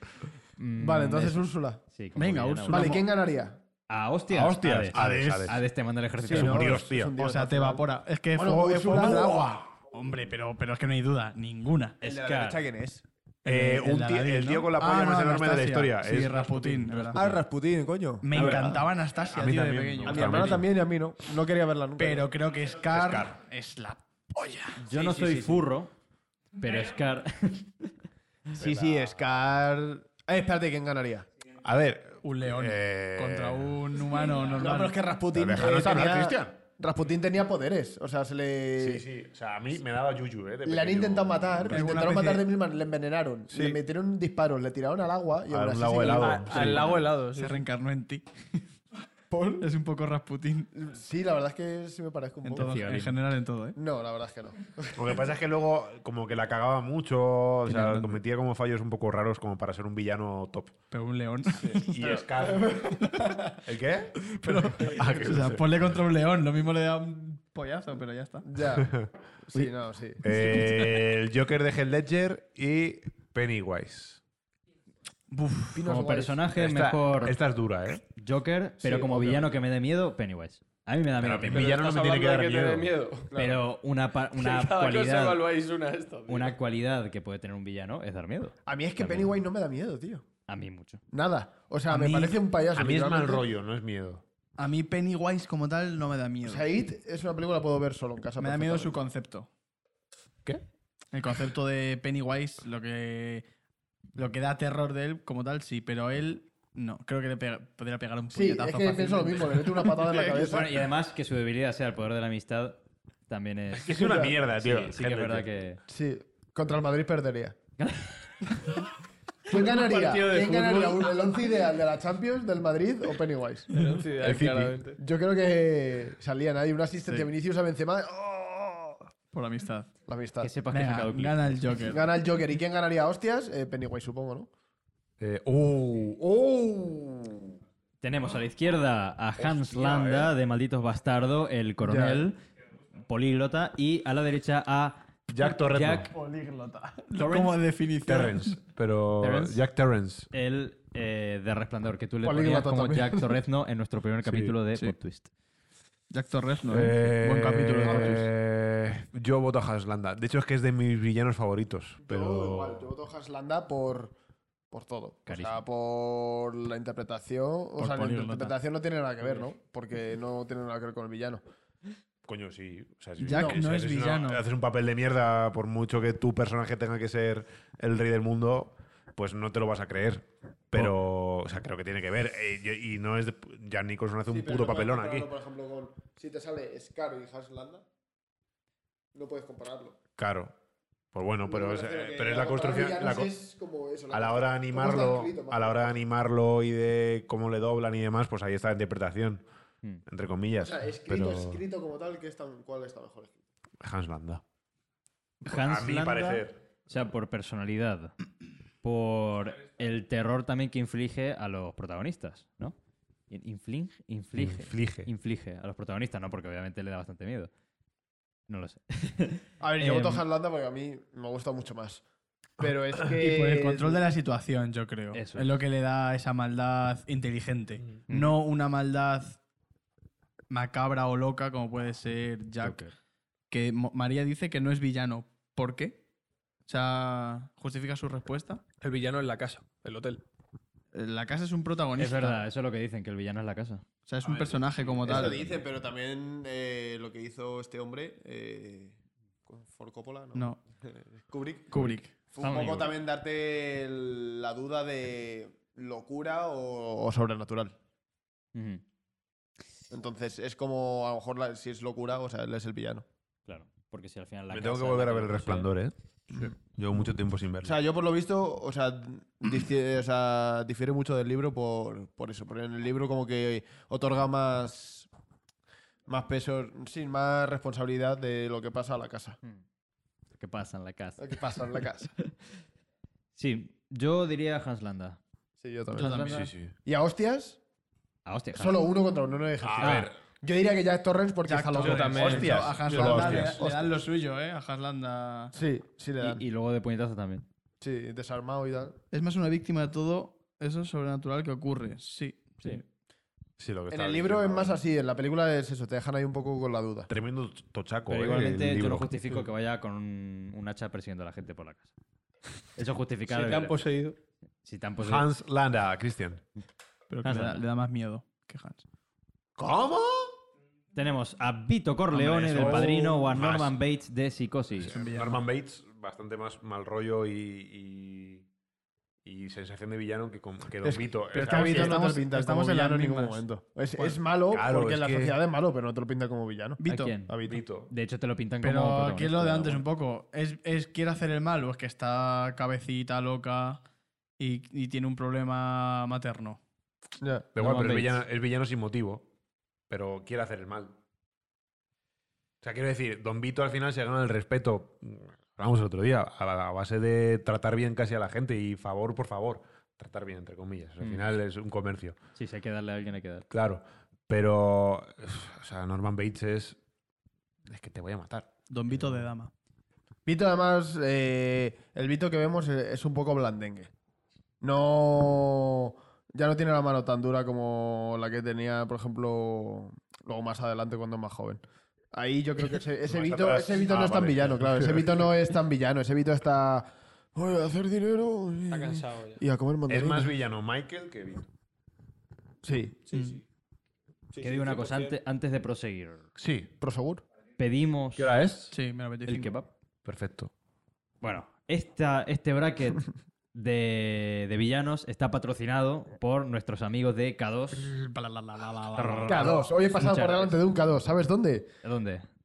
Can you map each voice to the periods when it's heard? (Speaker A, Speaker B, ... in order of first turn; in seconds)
Speaker A: 0.6-2.9, 3.9-6.8, 12.0-12.6, 18.4-18.8, 24.8-25.9, 26.6-27.9, 52.6-53.2, 75.8-77.4, 78.1-81.8, 83.3-85.4, 86.3-89.3, 90.5-91.0, 110.3-115.8, 117.8-118.3, 130.4-131.9, 138.0-142.4, 143.1-146.1, 147.1-147.6, 149.2-149.6, 150.3-155.3, 165.3-165.6, 205.4-208.1, 208.8-212.8, 213.3-217.5, 218.5-220.2, 225.1-225.6, 228.1-228.4, 232.6-232.9, 242.0-243.8, 252.4-252.9, 258.5-258.8, 263.5-265.7, 280.4-282.3, 283.4-285.2, 286.0-286.5, 288.3-288.8, 289.8-290.1, 296.2-297.5, 308.1-311.9, 312.8-313.8, 314.6-315.3, 317.2-317.6, 320.9-324.9, 336.9-337.4, 337.9-339.9, 347.6-348.2, 361.0-361.3, 362.4-363.5, 394.4-396.2, 397.6-398.3, 399.3-399.7, 401.2-407.9, 408.9-410.7, 411.8-412.3
Speaker B: 0.8-1.8, 2.7-3.6, 6.2-9.5, 12.0-13.1, 17.1-18.6, 20.0-22.3, 28.6-31.3, 34.5-39.0, 40.6-46.7, 49.3-49.6, 50.7-52.8, 53.8-55.2, 62.4-63.2, 68.4-70.4, 75.7-76.4, 78.8-79.4, 83.3-83.6, 88.7-90.2, 91.1-93.5, 96.4-99.0, 108.3-110.8, 113.9-114.4, 115.9-117.6, 119.5-123.7, 125.0-129.0, 130.1-130.5, 131.8-134.5, 141.8-142.3, 152.2-153.4, 157.8-158.2, 162.0-164.2, 164.7-171.4, 173.3-173.6, 184.3-187.8, 189.1-190.0, 191.5-196.0, 200.6-203.4, 219.6-222.0, 222.6-224.0, 245.0-257.8, 259.9-263.1, 267.6-275.1, 276.1-279.4, 281.2-282.1, 285.6-287.6, 288.6-292.6, 293.2-293.6, 295.5-296.4, 297.8-299.0, 303.9-307.1, 330.8-337.6, 347.2-347.5, 370.3-373.9, 374.6-381.6, 382.1-390.4, 392.6-393.0, 396.8-397.2, 409.3-411.7
Speaker C: 2.2-3.0, 4.9-5.6, 7.2-12.0, 13.4-17.2, 18.2-20.6, 22.0-24.8, 32.2-35.0, 41.7-42.5, 46.5-48.6, 49.6-50.7, 52.5-53.8, 57.7-58.2, 60.9-62.1, 63.0-63.5, 64.2-68.5, 70.3-70.9, 75.3-75.9, 91.9-92.4, 94.6-96.7, 98.4-99.5, 101.1-103.4, 104.2-110.1, 129.3-129.9, 130.7-132.0, 146.1-148.6, 156.1-158.3, 167.8-168.6, 173.2-174.4, 223.2-229.4, 230.5-232.8, 233.5-236.0, 236.7-238.6, 240.9-242.4, 244.1-245.4, 250.3-250.6, 251.7-252.2, 286.0-286.5, 291.5-295.5, 299.1-302.8, 317.1-318.8, 322.1-323.1, 324.9-325.4, 331.3-333.4, 336.8-337.1, 338.6-343.8, 344.4-346.6, 368.7-369.5, 393.1-393.4, 398.7-399.6, 407.8-409.6
Speaker D: 4.3-5.6, 6.3-7.2, 13.5-17.4, 18.4-18.6, 19.3-20.6, 22.9-23.3, 28.6-29.1, 31.6-33.8, 35.3-36.5, 38.8-42.0, 43.5-43.8, 45.5-47.1, 55.0-60.8, 61.6-65.8, 68.7-69.1, 70.2-74.2, 76.5-78.0, 81.2-82.9, 92.7-94.2, 113.7-115.5, 124.2-124.8, 135.2-137.4, 139.4-140.3, 145.3-146.1, 148.1-150.3, 154.2-154.6, 156.7-162.9, 172.2-185.3, 190.2-190.6, 191.1-193.3, 194.1-199.4, 200.1-201.6, 203.8-204.4, 205.5-206.6, 214.4-215.1, 264.5-267.8, 286.3-286.7, 289.6-290.1, 291.8-293.9, 303.6-304.8, 307.1-309.3, 315.0-316.4, 319.6-320.3, 322.5-323.8, 324.9-328.4, 329.2-332.0, 334.5-335.4, 337.4-337.9, 347.6-349.3, 349.9-350.9, 352.6-362.2, 363.5-366.8, 367.7-368.5, 383.1-385.2, 389.9-391.5, 396.4-396.7, 398.2-398.8, 400.1-400.5
Speaker E: 46.0-47.6, 81.5-83.3, 84.3-86.6, 119.7-121.2, 123.7-125.0, 238.8-240.2, 291.8-293.4, 313.3-314.2, 388.7-389.4, 393.1-393.4, 394.3-395.2